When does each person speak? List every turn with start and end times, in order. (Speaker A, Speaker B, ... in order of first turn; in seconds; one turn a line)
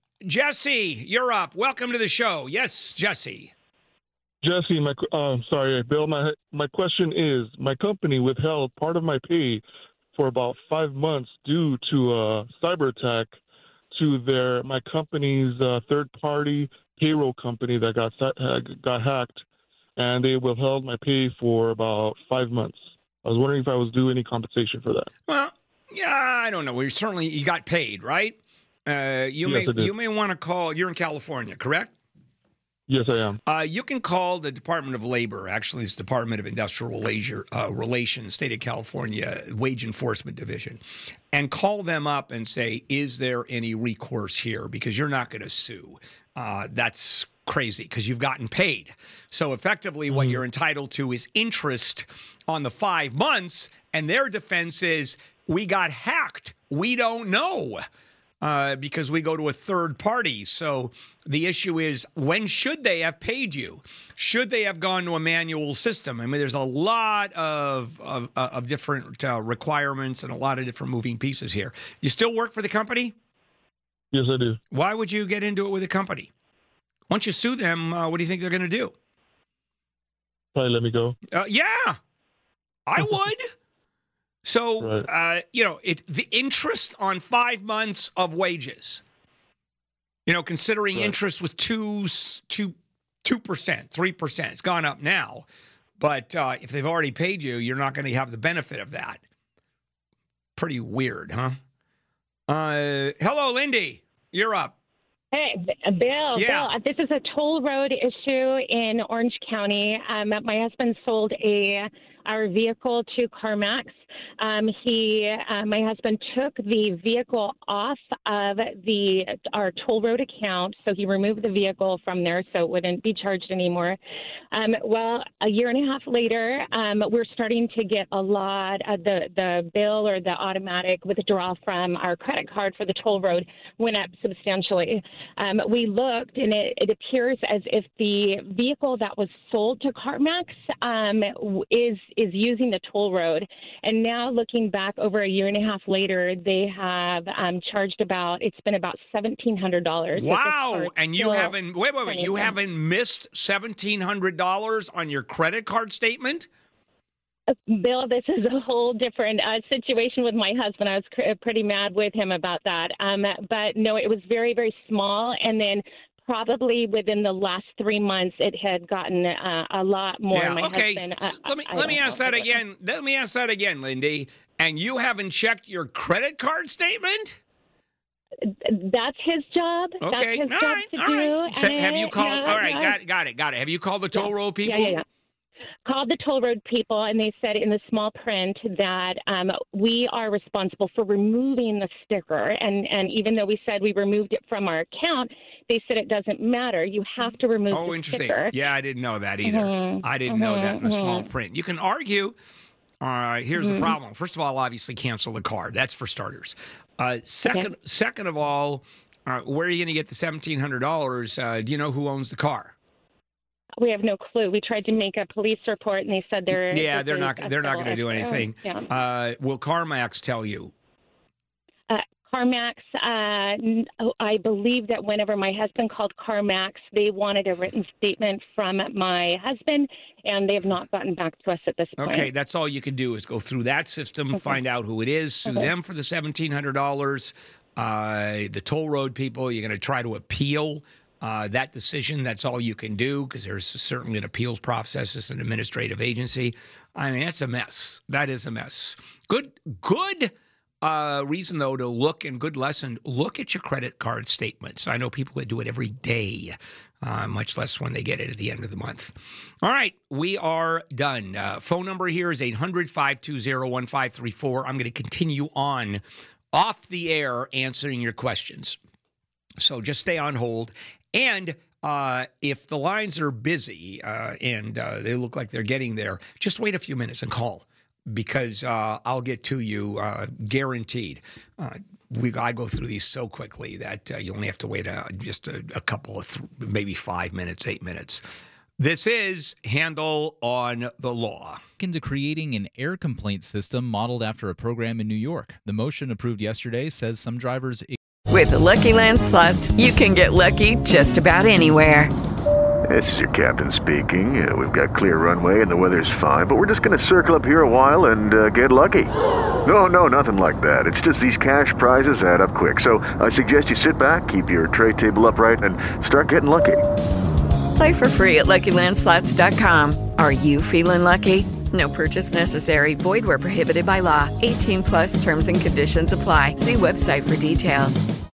Speaker A: 0.2-3.5
Speaker B: 4.4-9.6
Speaker B: 10.1-13.4
Speaker B: 13.9-19.4
Speaker B: 20.0-25.1
Speaker A: 25.3-31.9
Speaker B: 29.4-29.9
Speaker B: 32.9-33.4
Speaker A: 33.5-40.8
Speaker A: 41.3-57.8
Speaker B: 50.1-50.4
Speaker A: 58.4-73.1
Speaker B: 74.1-74.6
Speaker A: 74.7-76.3
Speaker A: 77.1-78.9
Speaker B: 80.5-81.2
Speaker A: 81.3-82.0
Speaker A: 82.8-83.5
Speaker A: 84.4-89.0
Speaker B: 84.8-85.1
Speaker A: 90.3-95.5
Speaker A: 96.0-99.2
Speaker A: 100.6-101.6
Speaker A: 102.5-104.7
Speaker C: 105.3-124.0
Speaker A: 106.3-106.7
Speaker C: 124.5-151.5
Speaker A: 150.1-156.5
Speaker C: 152.1-152.5
Speaker C: 157.7-172.6
Speaker A: 170.3-177.4
Speaker C: 178.4-183.0
Speaker A: 180.0-185.0
Speaker C: 184.1-185.0
Speaker C: 185.8-198.5
Speaker A: 197.7-202.3
Speaker C: 199.4-201.3
Speaker A: 203.0-212.7
Speaker C: 203.6-203.9
Speaker C: 207.4-207.7
Speaker C: 213.8-218.8
Speaker A: 216.5-220.7
Speaker C: 221.9-232.3
Speaker A: 232.0-268.8
Speaker A: 269.6-291.6
Speaker D: 291.8-298.0
Speaker E: 298.3-302.1
Speaker F: 302.9-309.1
Speaker F: 309.6-316.8
Speaker E: 317.8-328.1